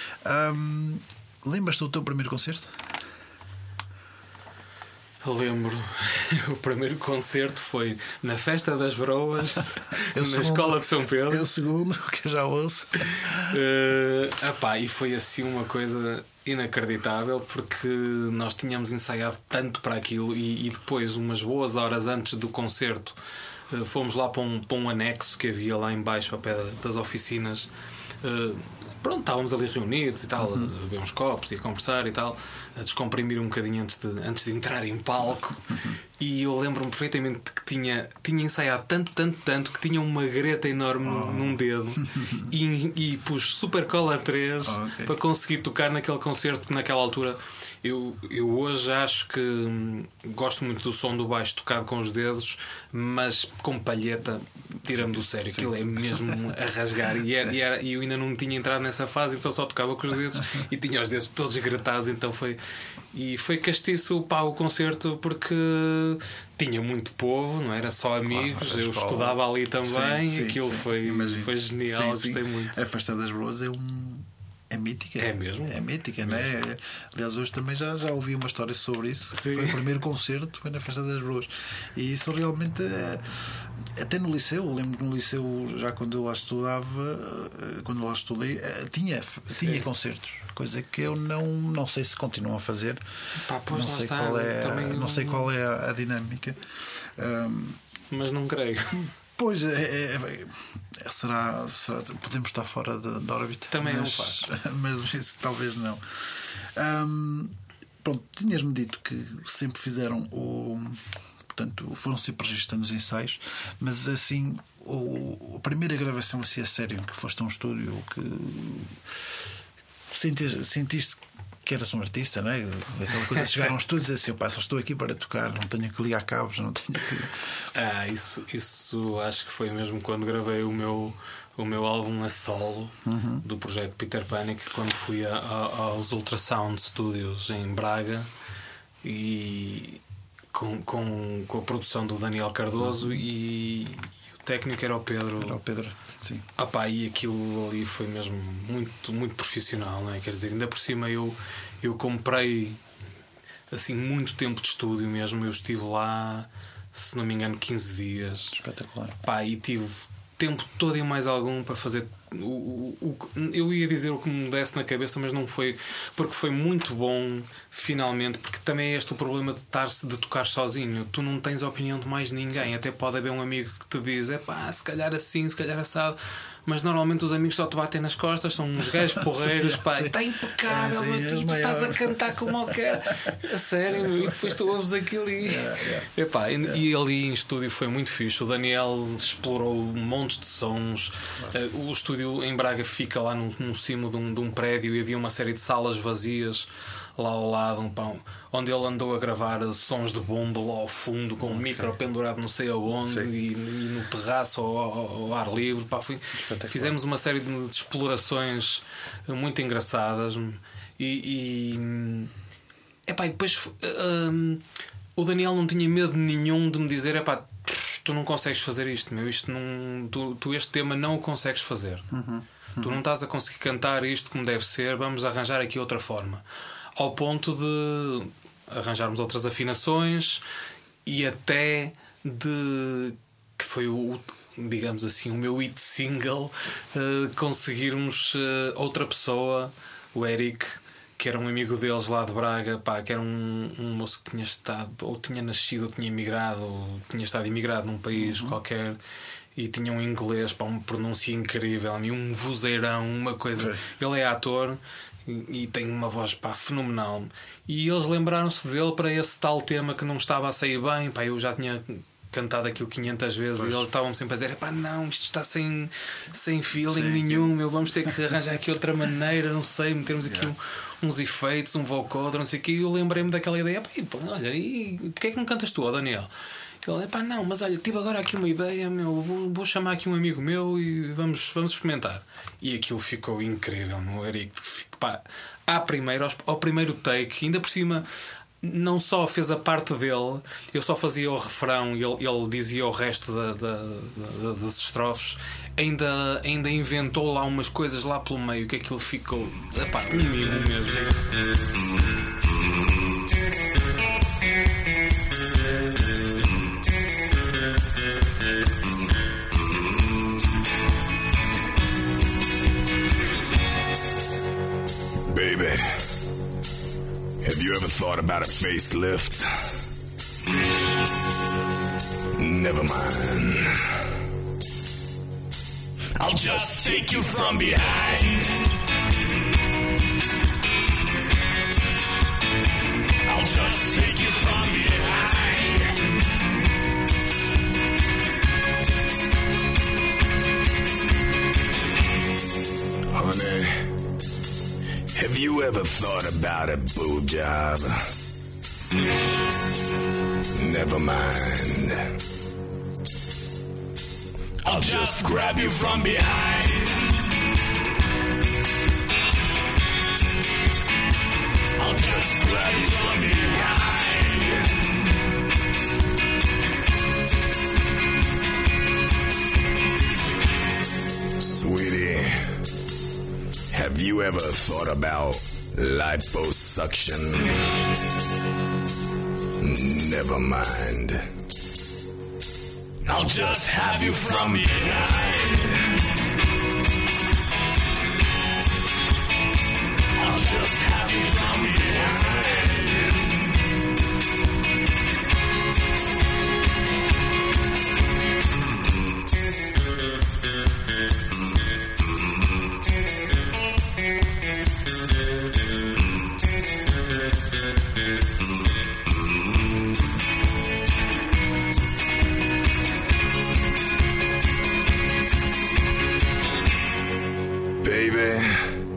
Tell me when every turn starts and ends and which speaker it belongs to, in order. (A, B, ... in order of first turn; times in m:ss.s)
0:00.2-0:02.9 A
0:05.2-0:11.4 B
0:10.0-0:13.5 A
0:13.2-0:23.2 B
0:23.7-0:27.7 B
0:28.2-1:02.6 B
0:30.4-0:30.7 A
0:35.7-0:36.0 A
0:41.0-0:42.5 A
0:44.6-0:45.1 A
0:54.8-0:56.4 A
1:03.1-1:12.8 B
1:08.2-1:33.0 A
1:15.2-1:16.4 B
1:19.3-1:19.8 B
1:29.5-1:29.8 B
1:33.4-1:35.5 B
1:33.7-1:37.8 A
1:38.1-1:39.1 B
1:38.9-1:59.1 A
1:43.7-1:44.4 B
2:00.1-2:07.4 A
2:07.7-2:18.3 B
2:13.0-2:13.4 A
2:19.0-2:20.0 B
2:20.5-2:25.6 B
2:22.8-2:23.2 A
2:25.4-2:26.4 A
2:26.6-2:32.8 B
2:33.7-2:38.6 B
2:38.5-2:39.2 A
2:39.2-3:32.3 B
2:59.2-3:03.3 A
3:03.9-3:04.5 A
3:05.4-3:06.1 A
3:21.4-3:21.9 A
3:23.0-3:23.3 A
3:26.3-3:27.0 A
3:33.1-3:34.6 B
3:35.2-3:42.1 B
3:42.1-3:43.0 A
3:42.8-3:46.4 B
3:47.0-3:50.4 B
3:51.0-4:09.0 B
4:08.1-4:08.6 A
4:09.5-4:36.3 B
4:13.6-4:13.8 A
4:23.6-4:23.8 A
4:26.9-4:27.5 A
4:30.2-4:30.5 A
4:36.8-4:48.1 B
4:48.6-5:01.2 B
5:15.3-5:16.0 C
5:17.4-5:19.5 C
5:22.4-5:23.9 C
5:26.2-5:28.5 C
5:33.2-5:36.0 C
5:43.1-5:43.9 C
5:45.1-5:48.0 C
5:50.6-5:52.1 C
5:54.6-5:57.0 C
6:01.8-6:04.7 C
6:11.4-6:12.4 C
6:13.7-6:17.7 C
6:19.6-6:21.3 C
6:23.0-6:25.8 C
6:30.2-6:33.2 C
6:57.8-6:58.7 C